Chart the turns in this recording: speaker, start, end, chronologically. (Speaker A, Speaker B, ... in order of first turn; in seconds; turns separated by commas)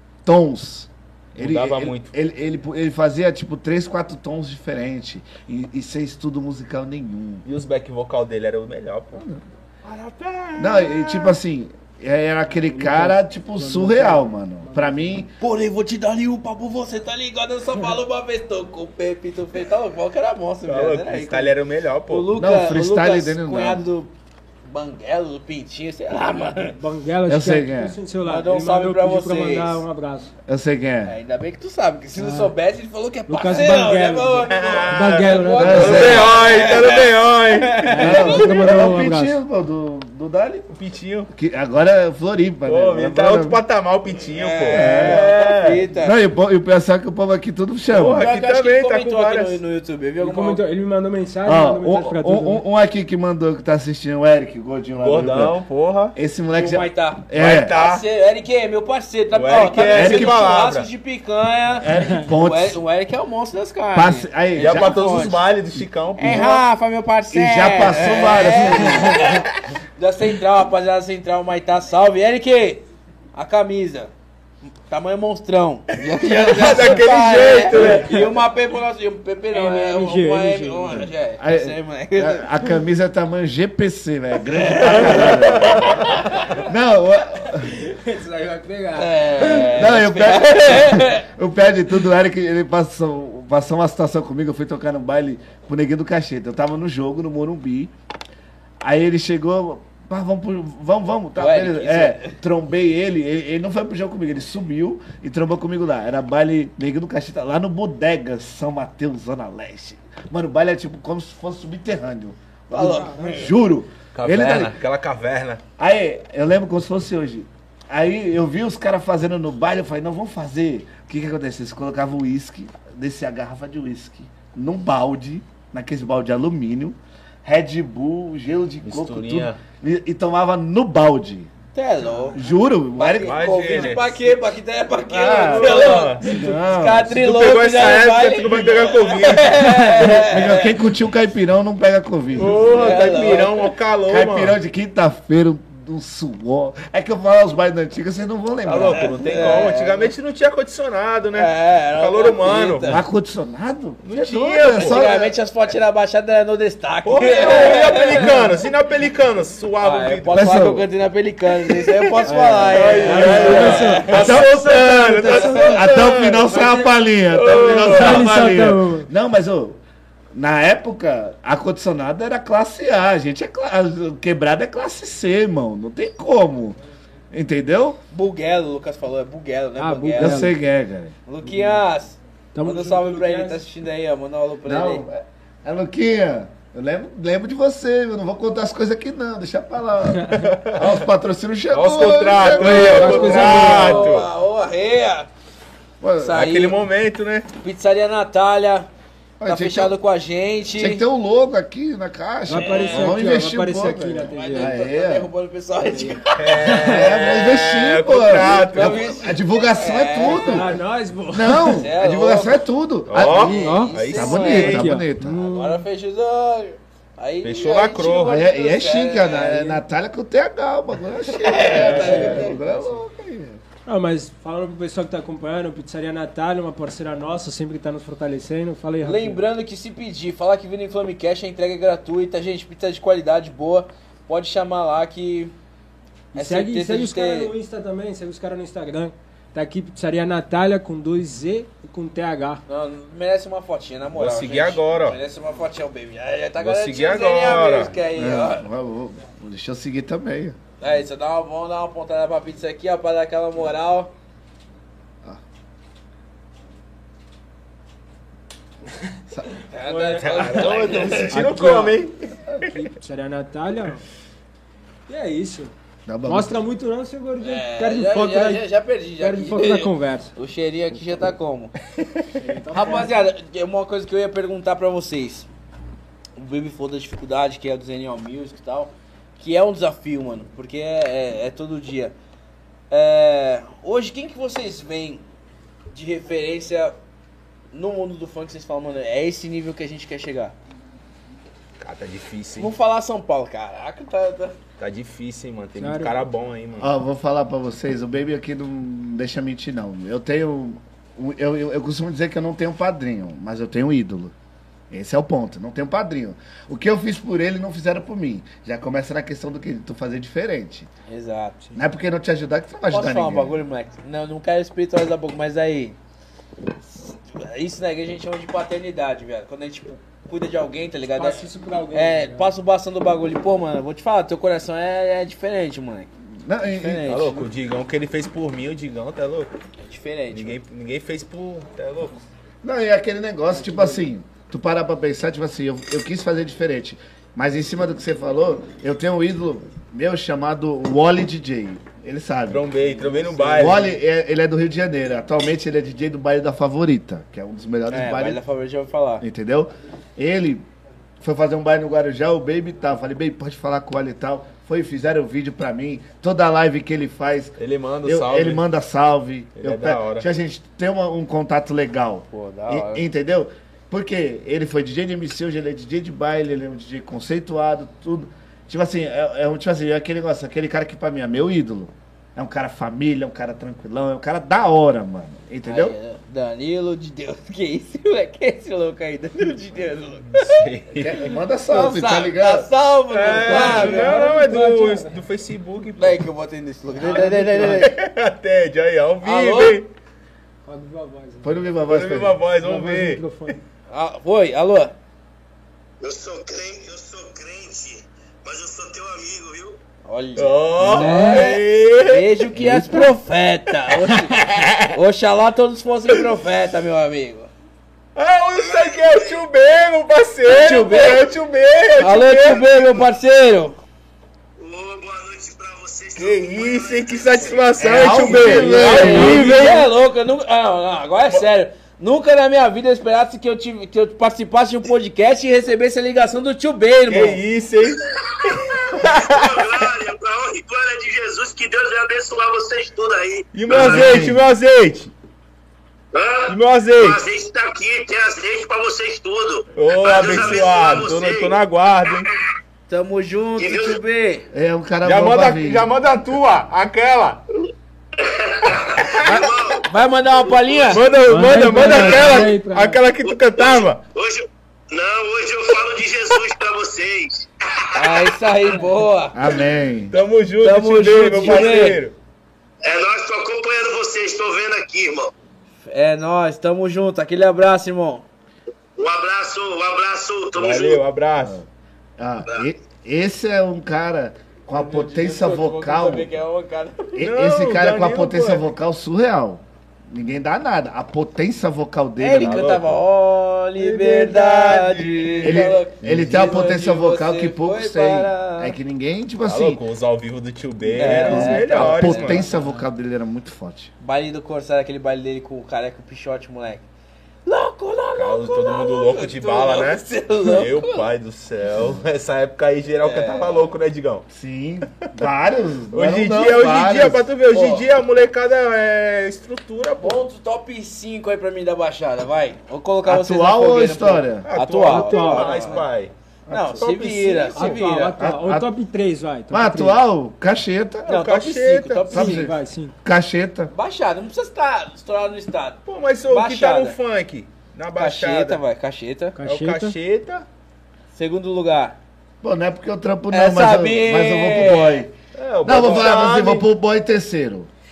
Speaker A: 0.2-7.4, Speaker B: 1.3-2.1, Speaker B: 7.4-9.2, Speaker A: 9.2-9.4, Speaker B: 9.8-11.4, Speaker A: 10.6-15.3, Speaker C: 12.6-15.0, Speaker D: 15.4-21.6, Speaker B: 20.6-22.3, Speaker D: 22.1-24.1, Speaker A: 22.3-23.8, Speaker D: 24.7-26.8, Speaker C: 26.7-30.3, Speaker A: 27.2-28.0, Speaker D: 28.2-29.8, Speaker A: 30.5-31.1, Speaker D: 31.0-38.4, Speaker C: 32.1-32.5, Speaker C: 33.3-36.3, Speaker B: 34.5-38.9, Speaker A: 35.6-36.4, Speaker C: 37.9-39.4, Speaker A: 38.0-40.7, Speaker B: 40.7-41.3, Speaker A: 41.3-43.6, Speaker B: 42.6-45.8, Speaker D: 44.3-46.2, Speaker A: 44.7-45.3, Speaker A: 46.0-48.3, Speaker B: 47.9-49.6, Speaker D: 48.1-50.6, Speaker C: 50.2-52.6, Speaker A: 51.4-55.6, Speaker B: 55.0-56.1, Speaker A: 56.1-57.7, Speaker D: 56.5-65.4, Speaker B: 57.3-58.0, Speaker B: 59.3-60.9, Speaker A: 59.9-60.4, Speaker A: 61.8-62.8, Speaker A: 63.9-65.0, Speaker B: 64.6-66.6, Speaker D: 66.2-74.1, Speaker A: 66.2-66.5, Speaker A: 67.3-69.4, Speaker D: 74.9-82.5, Speaker B: 76.1-78.3, Speaker C: 77.8-78.2, Speaker C: 79.5-81.1, Speaker A: 81.4-87.8, Speaker D: 84.5-86.6, Speaker B: 84.8-86.1, Speaker C: 87.7-89.6, Speaker D: 88.9-91.3, Speaker A: 89.3-97.9, Speaker A: 98.8-114.8, Speaker D: 101.3-102.4, Speaker D: 112.7-113.5, Speaker C: 113.0-113.3, Speaker B: 114.1-115.6, Speaker A: 115.8-131.5, Speaker B: 128.8-129.6, Speaker D: 131.7-132.4, Speaker A: 132.3-133.4, Speaker D: 132.9-140.8, Speaker B: 133.2-134.2, Speaker B: 135.1-136.2, Speaker A: 135.1-137.2, Speaker B: 137.1-140.2, Speaker A: 140.0-143.0, Speaker B: 142.3-144.6, Speaker D: 142.6-143.6, Speaker A: 144.1-149.2, Speaker B: 148.6-152.9, Speaker D: 148.8-150.1, Speaker D: 151.3-153.0, Speaker A: 152.9-155.3, Speaker B: 154.0-155.0, Speaker D: 154.7-158.6, Speaker B: 157.0-160.5, Speaker D: 159.8-164.4, Speaker A: 160.3-160.9, Speaker A: 162.2-169.8, Speaker B: 162.7-166.7, Speaker C: 162.7-164.4, Speaker D: 165.2-165.8, Speaker B: 167.3-168.4, Speaker C: 167.9-169.1, Speaker A: 170.3-176.8, Speaker A: 177.3-178.0, Speaker D: 178.1-180.5, Speaker C: 179.8-180.5, Speaker A: 180.2-181.2, Speaker D: 181.3-185.0, Speaker C: 182.5-183.6, Speaker A: 184.6-194.0, Speaker B: 190.3-190.9, Speaker B: 191.7-194.3, Speaker C: 192.5-194.1, Speaker D: 192.8-195.3, Speaker A: 196.0-196.4, Speaker D: 196.2-196.8, Speaker B: 196.3-197.5, Speaker D: 197.6-198.9, Speaker A: 199.4-199.9, Speaker D: 199.4-201.0, Speaker A: 200.7-205.3, Speaker C: 202.4-204.8, Speaker D: 202.5-203.2, Speaker D: 204.3-207.0, Speaker B: 206.4-209.1, Speaker A: 206.7-210.8, Speaker D: 208.3-210.7, Speaker C: 210.2-211.9, Speaker A: 211.3-215.4, Speaker D: 211.6-212.6, Speaker B: 213.1-214.9, Speaker D: 213.2-219.8, Speaker C: 213.3-214.0, Speaker C: 214.6-215.8, Speaker B: 217.4-218.4, Speaker A: 218.2-223.6, Speaker D: 221.3-222.9, Speaker B: 221.6-222.5, Speaker C: 223.8-229.4, Speaker D: 229.0-235.5, Speaker C: 236.3-242.6, Speaker D: 236.3-237.5, Speaker D: 242.7-248.7, Speaker B: 244.1-245.2, Speaker B: 246.6-247.9, Speaker A: 248.1-250.6, Speaker D: 250.8-254.1, Speaker D: 259.7-261.5, Speaker C: 259.8-262.0, Speaker B: 260.2-262.7, Speaker C: 262.6-264.0, Speaker C: 265.1-265.7, Speaker A: 266.1-266.6, Speaker C: 266.2-268.6, Speaker D: 267.4-271.7, Speaker C: 269.2-270.3, Speaker C: 272.3-273.1, Speaker D: 272.7-275.5, Speaker D: 276.4-282.1, Speaker D: 282.9-285.2, Speaker D: 285.9-286.9, Speaker D: 287.7-290.5, Speaker B: 291.8-292.7, Speaker D: 292.6-294.6, Speaker B: 294.8-296.9, Speaker C: 295.8-296.2, Speaker A: 296.8-304.3, Speaker A: 304.9-310.9, Speaker D: 311.1-311.6, Speaker A: 311.7-313.5, Speaker D: 312.9-315.9, Speaker D: 317.0-326.1, Speaker C: 321.1-322.5, Speaker A: 326.4-327.1, Speaker D: 326.6-327.4, Speaker B: 327.1-329.5, Speaker D: 329.8-330.6, Speaker B: 330.3-332.1, Speaker A: 332.6-342.6, Speaker B: 342.5-344.0, Speaker A: 343.5-348.4, Speaker D: 347.9-349.2, Speaker A: 349.2-350.6, Speaker A: 351.2-375.9, Speaker B: 357.6-358.6, Speaker B: 359.6-360.3, Speaker D: 362.3-363.1, Speaker D: 375.6-380.6, Speaker B: 380.3-381.2, Speaker A: 380.9-382.7, Speaker D: 381.7-384.3, Speaker B: 383.1-386.2, Speaker C: 383.2-385.2, Speaker D: 386.0-387.9, Speaker C: 387.0-387.8, Speaker B: 387.0-389.9, Speaker D: 389.2-389.8, Speaker C: 390.6-391.7, Speaker A: 391.4-392.4, Speaker B: 391.9-393.5, Speaker C: 392.6-393.6, Speaker D: 393.9-394.9, Speaker E: 396.0-399.8, Speaker D: 400.0-407.5, Speaker B: 400.4-403.0, Speaker C: 400.8-401.5, Speaker B: 404.3-404.9, Speaker B: 408.1-413.0, Speaker E: 408.6-409.4, Speaker D: 410.5-411.2, Speaker D: 412.0-413.8, Speaker E: 414.6-418.0, Speaker B: 416.1-419.9, Speaker A: 417.8-419.6, Speaker D: 418.3-427.4, Speaker B: 427.1-429.9, Speaker E: 428.1-434.3, Speaker B: 433.5-435.1, Speaker A: 433.7-434.4, Speaker E: 436.1-441.6, Speaker B: 436.5-437.2, Speaker B: 439.8-442.3, Speaker D: 442.9-444.5, Speaker E: 443.6-444.0, Speaker A: 444.5-445.9, Speaker B: 445.0-447.4, Speaker E: 448.2-449.9, Speaker B: 449.0-449.3, Speaker D: 449.2-451.0, Speaker E: 450.6-451.0, Speaker B: 450.9-454.0, Speaker C: 451.2-453.0, Speaker D: 451.8-452.3, Speaker E: 451.9-452.4, Speaker E: 453.3-458.5, Speaker D: 457.9-459.5, Speaker A: 459.3-460.1, Speaker B: 460.1-462.1, Speaker D: 460.6-462.0, Speaker E: 462.8-465.3, Speaker D: 465.8-468.2, Speaker E: 468.9-471.0, Speaker B: 470.5-471.6, Speaker A: 472.2-476.3, Speaker D: 474.7-477.2, Speaker A: 477.1-482.8, Speaker B: 477.2-478.7, Speaker D: 482.2-488.8, Speaker B: 482.4-483.0, Speaker B: 483.8-486.6, Speaker A: 485.4-489.8, Speaker B: 489.4-492.5, Speaker A: 490.9-493.9, Speaker D: 490.9-492.6, Speaker D: 494.0-496.8, Speaker D: 497.4-501.1, Speaker B: 498.1-504.2, Speaker D: 503.0-503.7, Speaker A: 504.3-507.2, Speaker B: 505.9-510.2, Speaker D: 507.5-507.9, Speaker D: 510.0-515.9, Speaker A: 513.0-514.5, Speaker B: 514.4-516.1, Speaker C: 514.8-515.8, Speaker A: 516.5-516.8, Speaker D: 516.5-518.1, Speaker B: 516.8-517.8, Speaker C: 517.5-520.0, Speaker A: 518.2-518.7, Speaker A: 519.5-521.1, Speaker B: 521.0-522.1, Speaker D: 521.1-522.5, Speaker A: 522.1-523.7, Speaker C: 522.1-522.9, Speaker D: 523.7-527.0, Speaker B: 525.9-528.6, Speaker D: 528.0-529.4, Speaker C: 529.4-530.0, Speaker B: 529.4-530.5, Speaker D: 531.1-532.0, Speaker A: 532.4-535.1, Speaker D: 533.3-535.1, Speaker B: 535.3-536.6, Speaker A: 535.6-537.7